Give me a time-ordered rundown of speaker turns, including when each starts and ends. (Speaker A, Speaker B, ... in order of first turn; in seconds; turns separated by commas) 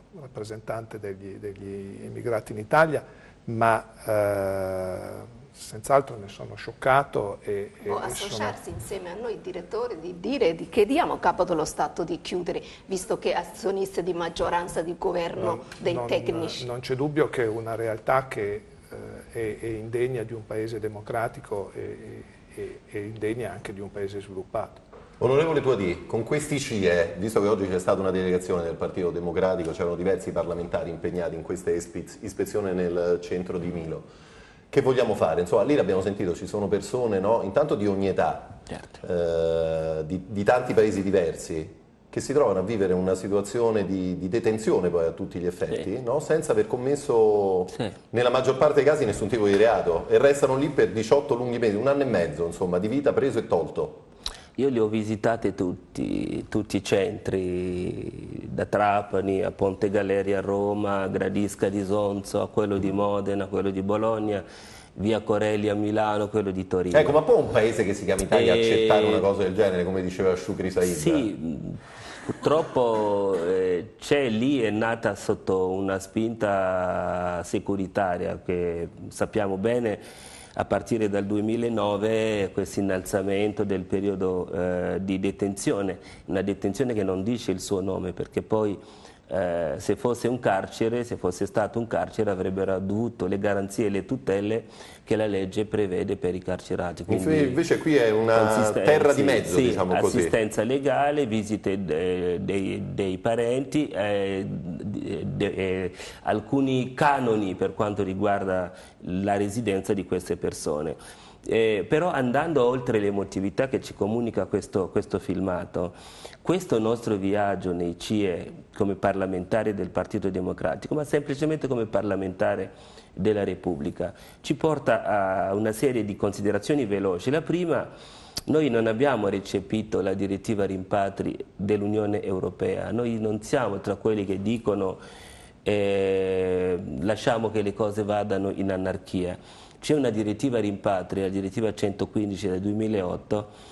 Speaker A: 0.1-8.6, Speaker B: 7.9-16.7, Speaker A: 15.4-24.8, Speaker C: 25.2-34.1, Speaker C: 34.7-54.0, Speaker D: 54.6-67.2, Speaker C: 66.9-71.3, Speaker D: 68.3-69.3, Speaker D: 70.8-80.0, Speaker D: 80.6-97.6, Speaker C: 97.1-100.3, Speaker D: 98.3-127.9, Speaker D: 128.5-135.0, Speaker D: 135.6-143.5